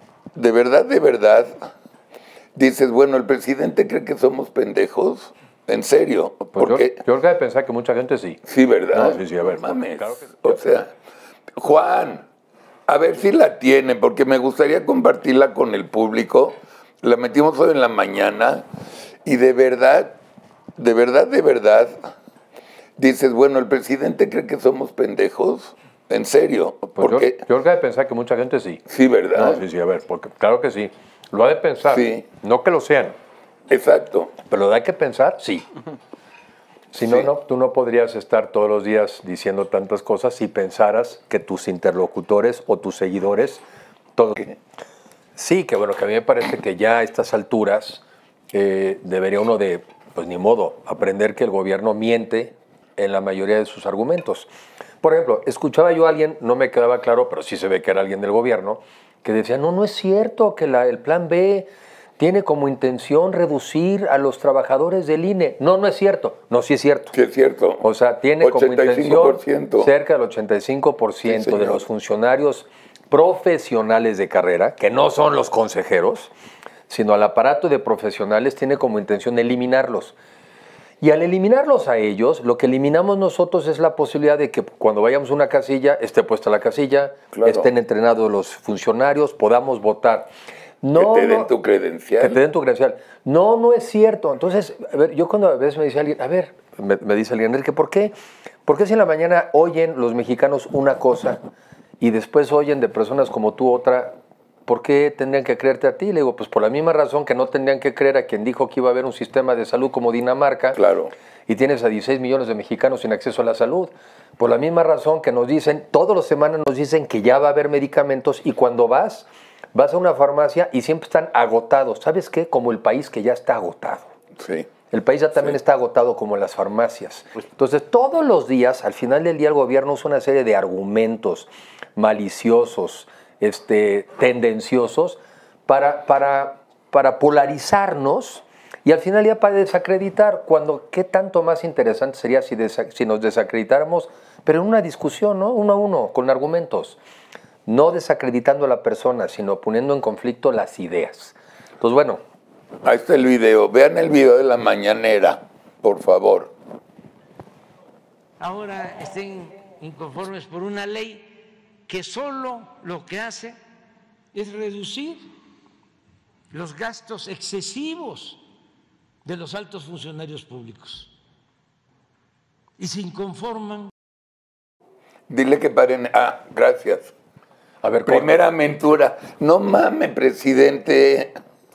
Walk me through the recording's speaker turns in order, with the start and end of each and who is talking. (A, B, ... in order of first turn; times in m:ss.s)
0:00.3-0:01.7 A
0:02.5-0:07.0 A
0:06.6-0:08.4 B
0:08.4-0:10.9 A
0:08.9-0:10.6 B
0:11.6-0:12.2 A
0:12.9-0:18.6 A
0:19.2-0:20.2 A
0:20.8-0:22.1 A
0:23.0-0:27.4 A
0:27.0-0:28.8 B
0:28.9-0:29.6 A
0:29.3-0:33.1 B
0:31.9-0:32.2 A
0:33.7-0:34.3 A
0:34.5-0:35.6 B
0:36.9-0:43.6 B
0:37.0-0:37.3 A
0:44.2-0:44.4 B
0:45.4-0:54.5 B
0:55.0-1:07.1 B
1:07.1-1:07.8 A
1:07.8-1:16.3 B
1:08.4-1:09.9 A
1:11.2-1:11.8 A
1:16.9-1:20.1 B
1:21.0-1:30.3 B
1:27.3-1:27.7 A
1:30.8-1:31.5 B
1:30.9-1:32.4 A
1:32.2-1:38.1 B
1:38.6-1:41.4 B
1:42.0-1:50.8 B
1:50.7-1:51.1 A
1:51.5-2:04.1 B
2:04.4-2:04.7 A
2:04.9-2:27.0 B
2:27.6-2:32.2 B
2:32.8-2:36.5 A
2:38.4-2:41.3 C
2:41.9-2:43.6 C
2:44.3-2:45.3 C
2:46.5-2:48.4 C
2:49.2-2:51.1 C
2:52.8-2:53.9 C
2:55.3-2:57.1 A
2:57.8-2:58.5 B
2:58.0-3:01.4 A